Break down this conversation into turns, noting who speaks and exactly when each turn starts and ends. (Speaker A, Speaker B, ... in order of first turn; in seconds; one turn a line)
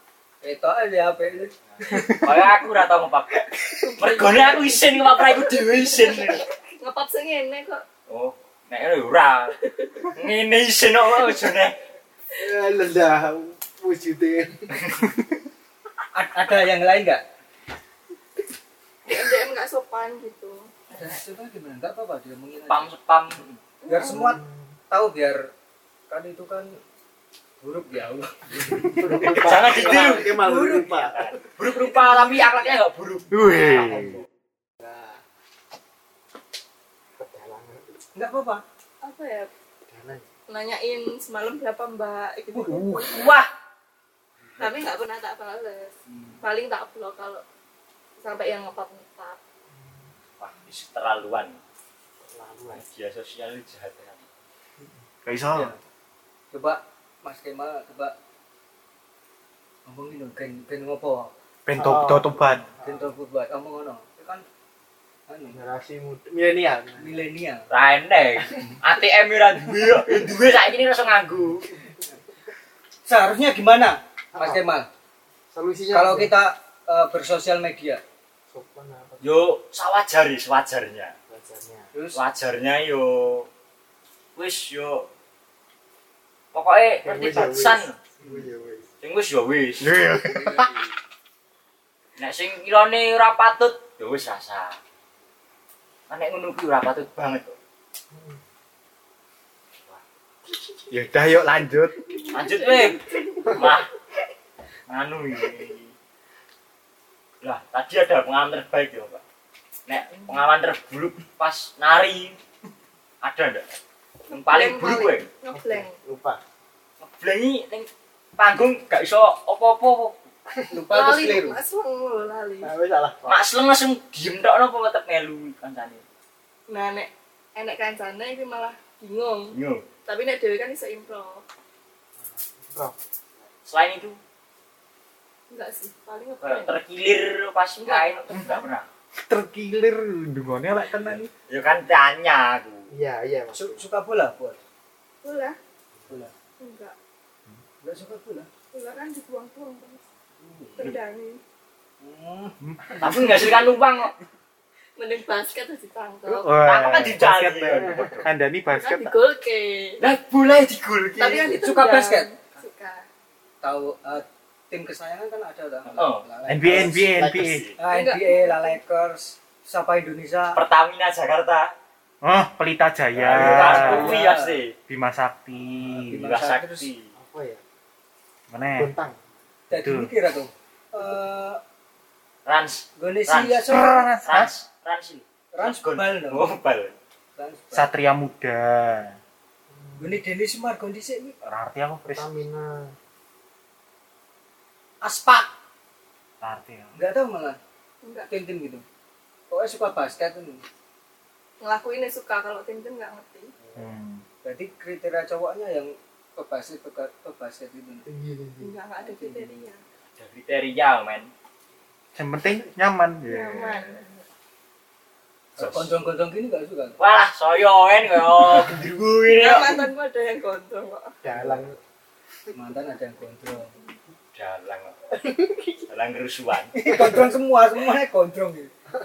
Speaker A: 0.4-1.5
Speaker B: 1.8-3.4
Speaker C: 1.9-2.3
Speaker A: 3.5-3.8
Speaker D: 3.8-7.8
Speaker B: 4.0-6.4
Speaker B: 8.1-11.8
Speaker D: 9.6-10.1
Speaker E: 12.4-14.8
Speaker A: 16.1-17.2
Speaker D: 19.1-20.7
Speaker A: 20.9-22.9
Speaker B: 22.7-23.6
Speaker D: 23.8-24.4
Speaker A: 23.9-25.4
Speaker E: 24.1-24.7
Speaker A: 26.1-26.7
Speaker A: 27.6-31.1
Speaker E: 28.6-31.4
Speaker B: 28.8-30.4
Speaker B: 31.1-34.2
Speaker D: 31.8-32.8
Speaker C: 33.3-34.2
Speaker E: 33.6-34.2
Speaker E: 34.8-35.2
Speaker E: 37.2-38.0
Speaker A: 38.1-38.6
Speaker D: 39.0-39.5
Speaker E: 39.9-40.2
Speaker D: 40.5-43.4
Speaker A: 42.5-42.8
Speaker C: 42.7-43.1
Speaker B: 43.1-43.5
Speaker D: 44.6-47.4
Speaker D: 48.2-49.4
Speaker B: 50.4-51.6
Speaker E: 52.2-52.9
Speaker B: 52.7-54.3
Speaker C: 55.2-55.7
Speaker A: 55.5-55.8
Speaker A: 56.5-58.1
Speaker A: 59.9-61.3
Speaker C: 61.7-62.6
Speaker E: 61.8-63.1
Speaker A: 62.8-64.4
Speaker A: 65.3-65.6
Speaker E: 65.5-67.2
Speaker A: 67.0-67.7
Speaker B: 67.7-71.8
Speaker A: 73.1-74.9
Speaker E: 74.3-74.7
Speaker E: 75.5-76.4
Speaker A: 75.9-78.0
Speaker E: 78.5-79.5
Speaker B: 79.2-81.1
Speaker E: 81.3-81.9
Speaker A: 81.9-82.2
Speaker B: 82.1-83.5
Speaker B: 84.3-85.1
Speaker B: 86.5-88.0
Speaker E: 87.0-88.9
Speaker B: 89.0-89.9
Speaker C: 89.8-90.7
Speaker A: 90.2-90.9
Speaker B: 92.2-94.8
Speaker B: 96.1-97.6
Speaker E: 98.1-98.4
Speaker C: 100.9-101.9
Speaker D: 102.0-103.6
Speaker B: 102.3-103.9
Speaker B: 104.9-105.9
Speaker B: 107.4-109.2
Speaker B: 109.9-112.4
Speaker B: 113.2-113.6
Speaker B: 114.3-115.3
Speaker D: 114.3-116.0
Speaker E: 115.5-116.4
Speaker B: 117.0-120.2
Speaker E: 120.5-120.9
Speaker A: 120.7-121.6
Speaker D: 120.9-122.7
Speaker E: 122.6-123.5
Speaker B: 123.3-126.0
Speaker D: 126.7-131.4
Speaker B: 129.5-129.8
Speaker E: 132.3-132.9
Speaker B: 133.7-134.2
Speaker D: 135.5-136.8
Speaker B: 136.4-138.8
Speaker D: 137.8-138.7
Speaker C: 139.3-141.3
Speaker B: 141.5-142.9
Speaker E: 142.9-143.8
Speaker A: 143.5-144.6
Speaker D: 145.2-145.6
Speaker D: 146.6-147.0
Speaker A: 147.8-148.5
Speaker D: 148.7-150.1
Speaker A: 150.4-150.9
Speaker D: 150.8-151.4
Speaker A: 152.0-153.6
Speaker C: 152.6-153.5
Speaker B: 153.0-154.1
Speaker D: 155.0-156.5
Speaker C: 156.3-159.1
Speaker B: 156.7-158.3
Speaker D: 158.7-160.1
Speaker B: 160.0-161.6
Speaker D: 161.2-163.1
Speaker A: 161.4-162.3
Speaker A: 163.6-166.9
Speaker B: 165.9-166.2
Speaker C: 166.5-167.7
Speaker E: 166.6-167.6
Speaker B: 167.4-167.8
Speaker A: 167.8-170.6
Speaker D: 167.9-168.8
Speaker B: 170.5-171.7
Speaker C: 172.2-174.3
Speaker B: 173.2-174.7
Speaker A: 173.3-174.6
Speaker C: 174.9-176.3
Speaker A: 175.8-176.9
Speaker B: 176.2-177.1
Speaker E: 177.2-177.6
Speaker C: 178.5-178.9
Speaker E: 178.8-179.2
Speaker A: 179.7-181.6
Speaker C: 179.7-180.1
Speaker B: 182.5-183.7
Speaker A: 183.0-184.1
Speaker C: 183.7-184.5
Speaker B: 184.2-186.9
Speaker A: 185.5-186.5
Speaker A: 187.4-187.9
Speaker C: 187.7-189.2
Speaker E: 189.7-190.2
Speaker A: 190.0-191.3
Speaker C: 191.4-192.3
Speaker E: 192.1-193.0
Speaker A: 195.0-195.5
Speaker C: 196.4-197.0
Speaker A: 196.9-197.6
Speaker D: 198.0-198.3
Speaker A: 198.3-198.8
Speaker A: 199.5-200.6
Speaker D: 201.6-203.5
Speaker C: 203.8-204.2
Speaker A: 204.4-208.1
Speaker E: 208.1-208.8
Speaker D: 208.6-209.8
Speaker A: 209.1-209.5
Speaker B: 210.2-211.3
Speaker C: 212.2-213.8
Speaker D: 213.2-214.2
Speaker B: 215.6-215.9
Speaker A: 215.6-217.0
Speaker B: 217.0-219.9
Speaker D: 219.4-221.2
Speaker E: 221.2-221.8
Speaker A: 221.3-221.7
Speaker A: 222.5-223.8
Speaker B: 224.3-224.9
Speaker E: 225.2-225.8
Speaker B: 225.9-226.7
Speaker A: 226.7-228.7
Speaker E: 226.9-227.2